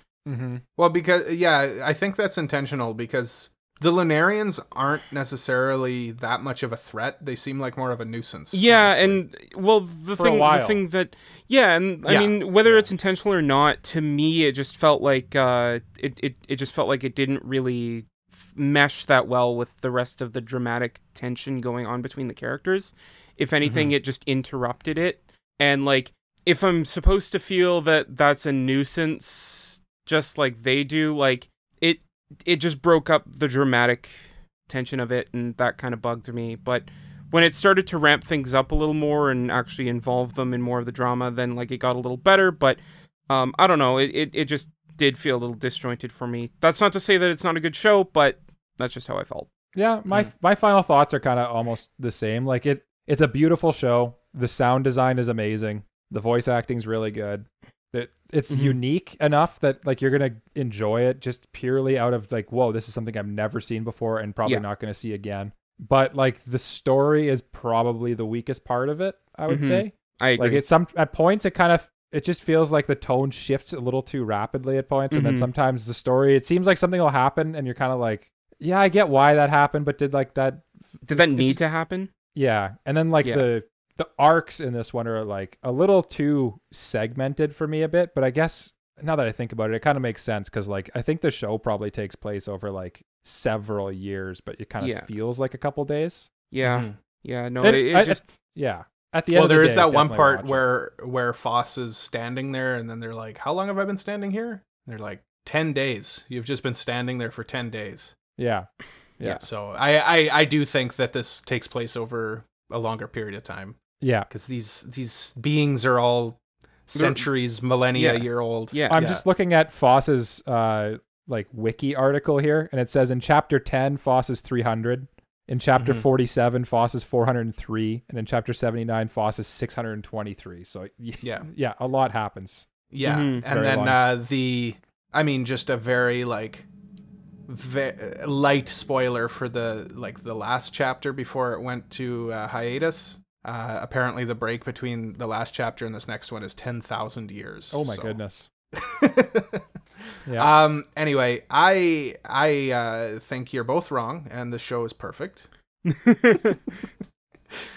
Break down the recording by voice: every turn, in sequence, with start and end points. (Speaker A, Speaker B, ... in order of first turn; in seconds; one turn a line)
Speaker A: 0.3-0.6
Speaker B: 0.8-9.2
Speaker C: 8.5-49.5
Speaker A: 10.2-10.8
Speaker B: 12.1-12.4
Speaker A: 12.6-12.9
Speaker B: 23.6-23.9
Speaker A: 49.7-81.6
Speaker C: 58.5-58.8
Speaker C: 69.5-70.6
Speaker C: 75.1-75.5
Speaker C: 81.0-82.1
Speaker A: 82.3-96.3
Speaker C: 94.8-95.1
Speaker C: 96.5-98.2
Speaker B: 96.6-96.9
Speaker A: 97.6-100.7
Speaker B: 99.3-108.1
Speaker A: 108.4-109.4
Speaker B: 109.4-113.8
Speaker A: 114.0-114.3
Speaker B: 114.3-119.2
Speaker C: 116.9-117.3
Speaker C: 117.9-119.0
Speaker A: 118.9-132.7
Speaker B: 125.8-126.1
Speaker B: 131.2-131.5
Speaker B: 132.9-136.7
Speaker C: 133.0-133.4
Speaker A: 133.4-134.1
Speaker B: 137.5-148.2
Speaker A: 147.7-148.5
Speaker B: 148.7-149.6
Speaker A: 150.3-150.6
Speaker B: 150.3-155.5
Speaker C: 155.8-156.6